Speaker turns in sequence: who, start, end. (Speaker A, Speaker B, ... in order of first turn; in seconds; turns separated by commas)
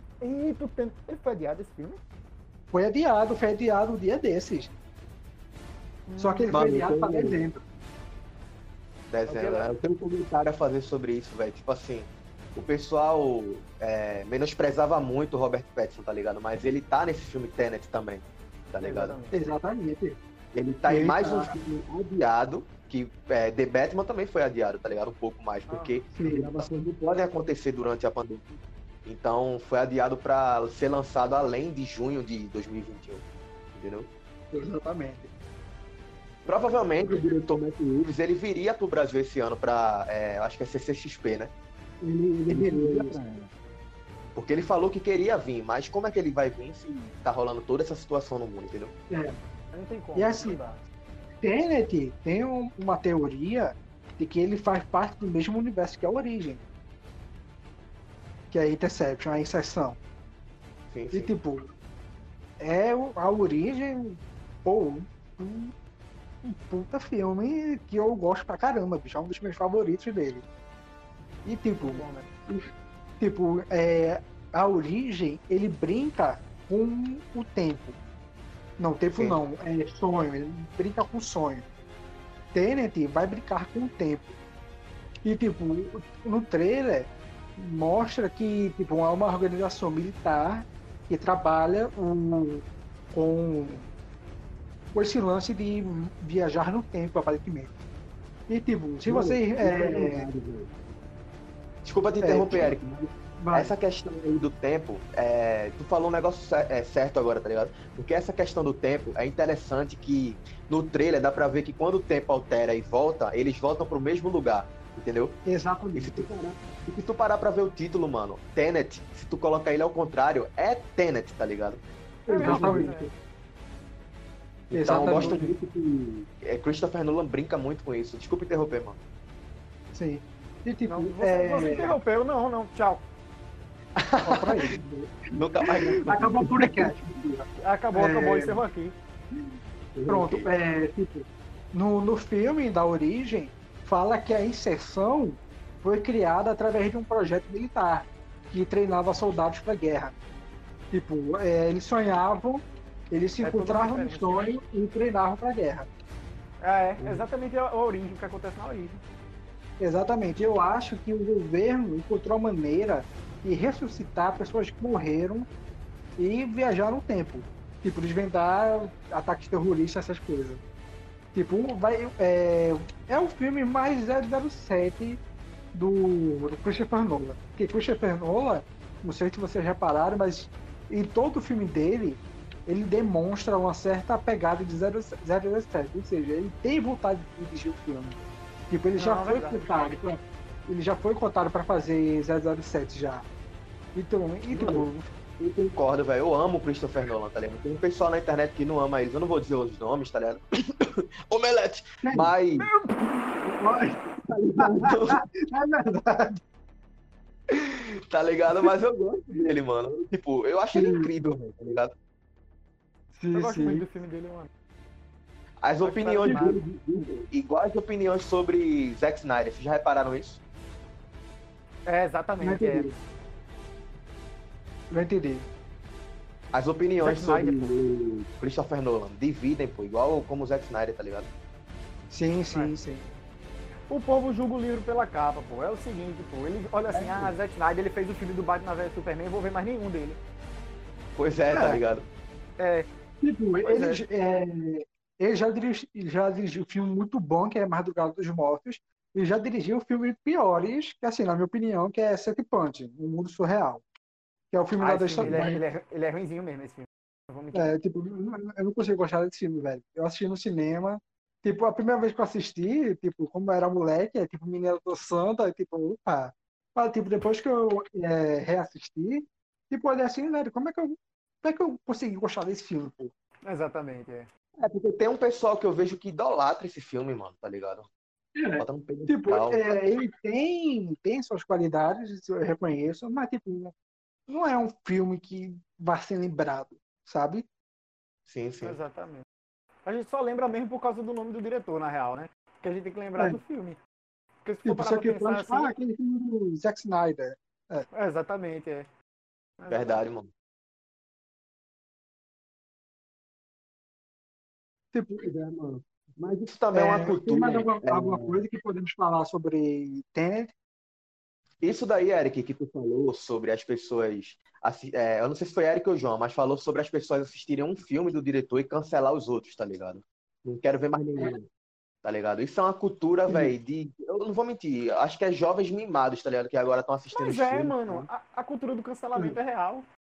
Speaker A: 0.2-2.0, Speaker B: 2.7-4.7, Speaker A: 6.1-6.5, Speaker B: 6.2-7.6, Speaker C: 6.5-7.5, Speaker C: 9.1-19.2, Speaker A: 9.3-9.7, Speaker A: 18.8-19.4, Speaker B: 19.3-20.2, Speaker C: 20.5-33.2, Speaker B: 20.9-21.6, Speaker A: 25.7-26.1, Speaker B: 26.1-26.6, Speaker C: 33.8-34.1, Speaker B: 34.5-35.3, Speaker C: 36.5-41.5, Speaker B: 42.0-43.5, Speaker C: 42.5-43.2, Speaker C: 44.4-48.9, Speaker B: 49.1-49.4, Speaker A: 49.7-50.8, Speaker B: 50.1-50.6, Speaker B: 51.4-56.6, Speaker B: 58.5-60.0, Speaker C: 60.9-61.3, Speaker B: 61.1-61.6, Speaker B: 62.6-65.7, Speaker B: 66.4-70.5, Speaker B: 71.5-72.7, Speaker A: 71.8-72.3, Speaker B: 73.2-78.0, Speaker B: 78.8-81.7, Speaker C: 79.1-79.4, Speaker B: 82.5-84.4, Speaker B: 85.2-93.9, Speaker B: 94.9-97.8, Speaker B: 98.5-100.3, Speaker C: 99.1-100.7, Speaker C: 101.8-115.4, Speaker B: 102.2-102.8, Speaker B: 103.4-103.7, Speaker B: 115.5-116.2, Speaker C: 116.0-121.8, Speaker B: 122.3-122.9, Speaker A: 122.3-123.1, Speaker C: 122.4-123.1, Speaker C: 124.7-129.0, Speaker B: 124.7-125.5, Speaker A: 125.0-125.5, Speaker B: 129.9-132.0, Speaker A: 130.9-133.0, Speaker C: 134.0-134.7, Speaker B: 134.2-138.6, Speaker C: 135.4-137.0, Speaker A: 137.6-138.9, Speaker C: 139.9-140.5, Speaker B: 140.1-150.1, Speaker B: 150.9-155.9, Speaker A: 153.4-154.5, Speaker A: 156.6-159.0, Speaker C: 157.0-157.3, Speaker B: 159.8-165.5, Speaker B: 166.2-170.6, Speaker B: 171.3-175.2, Speaker B: 175.7-193.3, Speaker A: 189.0-189.6, Speaker B: 193.9-195.1, Speaker C: 194.5-194.9, Speaker C: 195.4-202.7, Speaker B: 202.0-202.3, Speaker A: 202.6-203.2, Speaker B: 203.6-204.0, Speaker C: 204.2-205.2, Speaker B: 204.6-206.4, Speaker C: 207.5-211.9, Speaker B: 210.7-211.2, Speaker B: 213.2-213.9, Speaker A: 213.3-214.5, Speaker C: 215.6-220.4, Speaker A: 215.8-216.6, Speaker B: 216.3-216.6, Speaker A: 221.9-223.0, Speaker B: 222.4-222.9, Speaker B: 224.9-225.5, Speaker C: 226.5-231.3, Speaker A: 227.0-227.7, Speaker B: 232.1-233.1, Speaker A: 233.9-240.2, Speaker B: 236.9-237.3, Speaker C: 241.2-242.1, Speaker B: 241.5-241.8, Speaker A: 242.6-242.9, Speaker B: 243.2-253.8, Speaker A: 243.7-244.1, Speaker B: 254.5-255.6, Speaker A: 254.8-257.7, Speaker B: 257.5-273.1, Speaker A: 273.5-274.3, Speaker C: 274.6-277.9, Speaker B: 278.4-283.7, Speaker C: 278.6-279.7, Speaker B: 284.3-287.5, Speaker C: 288.3-288.8, Speaker A: 288.6-289.2, Speaker A: 289.9-293.8, Speaker A: 294.4-295.7, Speaker B: 294.6-297.9, Speaker A: 297.9-298.9, Speaker A: 299.6-300.0, Speaker C: 299.7-300.3, Speaker B: 304.9-305.3, Speaker C: 305.3-308.4, Speaker B: 306.7-310.5, Speaker C: 311.6-321.5, Speaker C: 322.0-328.1, Speaker B: 323.3-323.5, Speaker A: 327.1-329.9